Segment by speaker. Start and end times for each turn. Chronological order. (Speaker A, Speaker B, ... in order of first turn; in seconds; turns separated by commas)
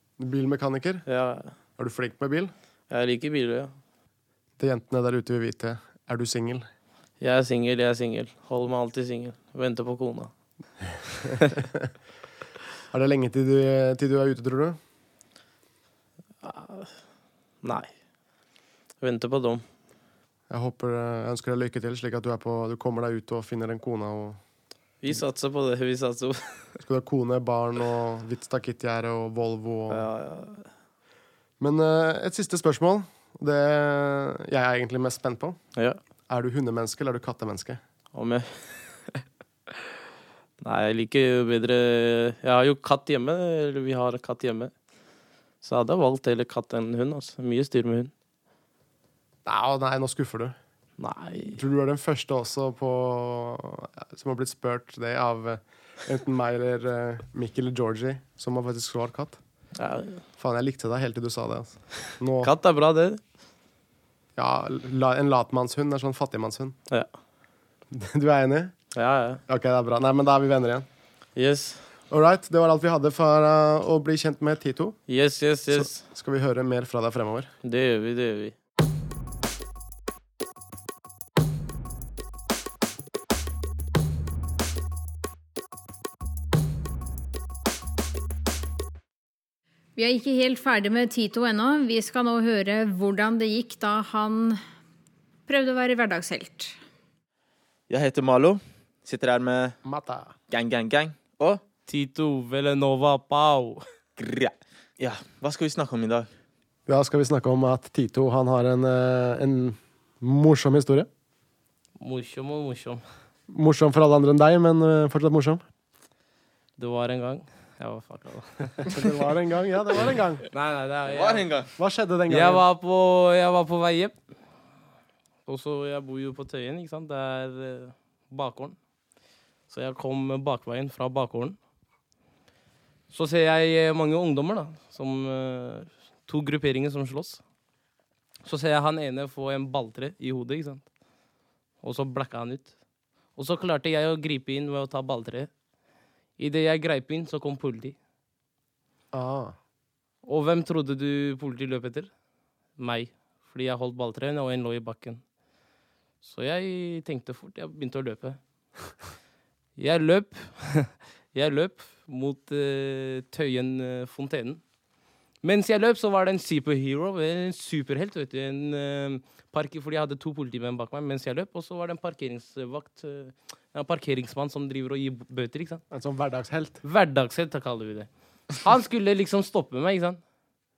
Speaker A: 0.2-1.0, Speaker B: 1.1-1.5, Speaker A: 1.8-2.5, Speaker B: 2.9-3.7, Speaker A: 4.6-6.7, Speaker B: 7.2-10.3, Speaker A: 11.4-11.9, Speaker A: 12.9-14.8, Speaker B: 16.4-16.9, Speaker B: 17.6-17.9, Speaker B: 19.0-19.6, Speaker A: 20.5-24.4, Speaker B: 25.0-26.4, Speaker A: 26.8-30.1, Speaker B: 29.9-30.7, Speaker A: 31.6-35.6, Speaker A: 36.3-37.8, Speaker B: 38.1-39.2, Speaker B: 40.6-44.7, Speaker B: 45.6-48.1, Speaker A: 49.4-50.6, Speaker B: 51.0-51.6, Speaker A: 51.5-59.4, Speaker B: 59.8-60.2, Speaker A: 60.4-62.5, Speaker B: 62.4-63.2, Speaker A: 64.3-66.8, Speaker A: 67.9-68.7, Speaker B: 68.9-69.4, Speaker A: 69.5-70.9, Speaker B: 71.3-71.8, Speaker A: 72.1-75.0, Speaker B: 75.1-76.0, Speaker A: 75.7-77.5, Speaker B: 77.6-78.5, Speaker C: 90.0-94.6, Speaker C: 95.5-96.7, Speaker D: 97.9-99.7, Speaker A: 99.8-100.4, Speaker D: 100.5-101.6, Speaker B: 101.9-103.8, Speaker D: 104.2-106.3, Speaker A: 106.9-111.1, Speaker B: 112.0-113.0, Speaker A: 113.5-115.6, Speaker B: 116.8-119.0, Speaker A: 118.8-120.4, Speaker B: 120.5-121.5, Speaker D: 121.0-121.7, Speaker A: 121.8-122.6, Speaker B: 122.3-124.1, Speaker B: 125.5-128.8, Speaker B: 129.7-131.6, Speaker B: 133.1-137.4, Speaker B: 138.4-140.8, Speaker B: 141.8-142.7, Speaker B: 143.3-145.5, Speaker B: 146.4-147.9, Speaker A: 149.1-149.6, Speaker B: 150.2-152.1, Speaker B: 152.8-155.2, Speaker B: 156.2-158.4, Speaker B: 159.8-164.6, Speaker B: 165.4-175.8, Speaker A: 175.9-176.8, Speaker B: 176.8-180.2